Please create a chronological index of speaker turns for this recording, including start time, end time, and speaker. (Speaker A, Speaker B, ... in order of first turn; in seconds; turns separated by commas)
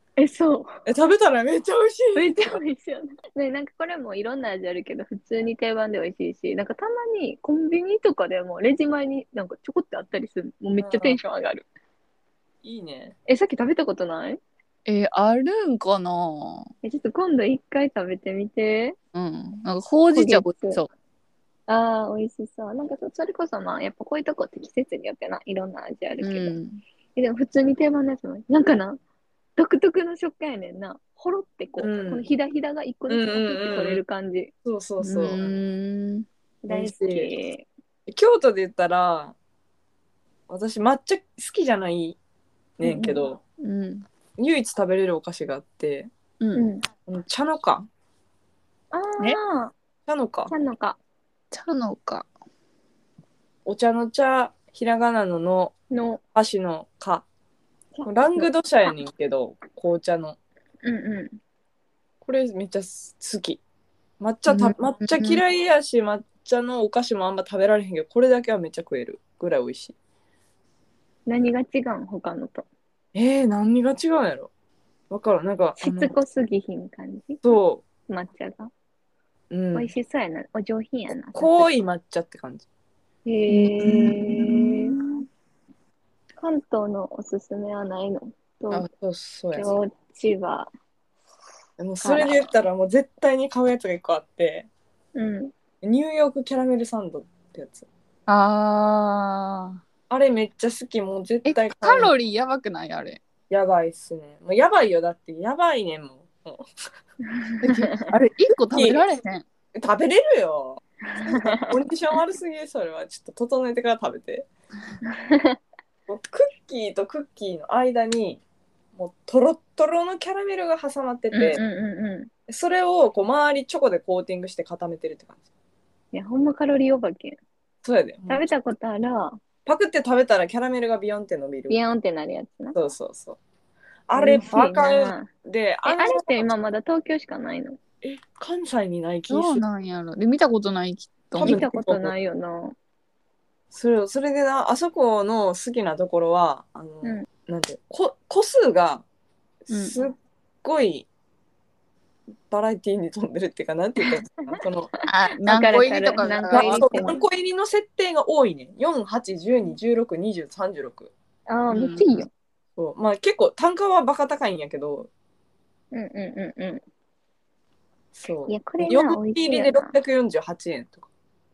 Speaker A: 0.2-0.7, Speaker B: 0.9-2.6, Speaker A: 2.2-11.7, Speaker B: 10.8-11.2, Speaker B: 12.6-13.2, Speaker A: 13.3-14.4, Speaker C: 14.9-16.7, Speaker A: 16.8-19.0, Speaker C: 19.1-20.9, Speaker A: 20.1-20.8, Speaker A: 21.7-26.6, Speaker C: 26.2-26.8, Speaker A: 27.1-29.0, Speaker A: 29.6-34.5, Speaker B: 31.8-32.3, Speaker B: 33.1-34.0, Speaker B: 34.6-35.5, Speaker C: 35.0-36.3, Speaker A: 36.6-37.7, Speaker B: 36.7-37.3, Speaker B: 38.1-39.4, Speaker B: 40.5-42.2, Speaker B: 42.8-43.4, Speaker A: 42.8-43.2, Speaker C: 43.6-44.1, Speaker B: 44.4-46.1, Speaker A: 46.5-46.8, Speaker B: 47.1-47.9, Speaker A: 48.9-49.7, Speaker B: 50.1-50.5, Speaker A: 50.5-51.0, Speaker C: 51.5-52.3, Speaker B: 53.7-55.7, Speaker A: 55.9-56.2, Speaker B: 56.4-57.2, Speaker A: 58.0-58.5, Speaker B: 58.0-60.4, Speaker A: 60.8-61.4, Speaker B: 62.2-63.6, Speaker B: 64.2-70.0, Speaker C: 64.5-65.4, Speaker A: 71.3-72.7, Speaker B: 73.2-74.5, Speaker B: 75.1-76.2, Speaker A: 75.8-77.4, Speaker B: 77.4-77.8, Speaker A: 78.1-78.7, Speaker B: 79.5-79.9, Speaker A: 79.7-81.7, Speaker B: 81.3-82.7, Speaker A: 83.2-85.0, Speaker B: 83.5-84.7, Speaker C: 83.6-84.8, Speaker A: 86.4-88.9, Speaker B: 88.7-89.7, Speaker A: 89.5-90.7, Speaker B: 91.8-94.7, Speaker A: 92.0-92.5, Speaker A: 95.2-95.5, Speaker B: 95.8-97.9, Speaker C: 98.3-99.8, Speaker B: 100.1-102.1, Speaker C: 101.5-103.2, Speaker B: 103.5-106.7, Speaker A: 107.3-108.0, Speaker C: 107.6-109.5, Speaker B: 108.7-109.1, Speaker B: 109.8-114.5, Speaker A: 111.0-111.8, Speaker A: 115.0-115.6, Speaker B: 116.1-118.4, Speaker B: 119.0-121.6, Speaker A: 121.3-122.3, Speaker B: 122.5-125.4, Speaker A: 126.1-127.4, Speaker B: 127.8-128.5, Speaker A: 128.3-129.4, Speaker B: 129.7-131.8, Speaker A: 131.7-132.8, Speaker B: 132.7-133.4, Speaker B: 134.1-136.5, Speaker A: 134.2-135.3, Speaker A: 135.8-137.8, Speaker B: 138.0-139.6, Speaker C: 139.3-141.8, Speaker B: 141.4-142.2, Speaker A: 141.4-142.8, Speaker B: 143.7-149.1, Speaker B: 149.7-151.1, Speaker C: 149.7-150.0, Speaker B: 152.5-154.9, Speaker A: 154.0-154.6, Speaker C: 155.1-157.2, Speaker A: 155.4-157.2, Speaker B: 156.5-161.1, Speaker A: 161.5-162.3, Speaker C: 161.7-162.2, Speaker B: 162.8-165.1, Speaker A: 165.9-166.8, Speaker B: 168.2-171.1, Speaker A: 168.5-169.9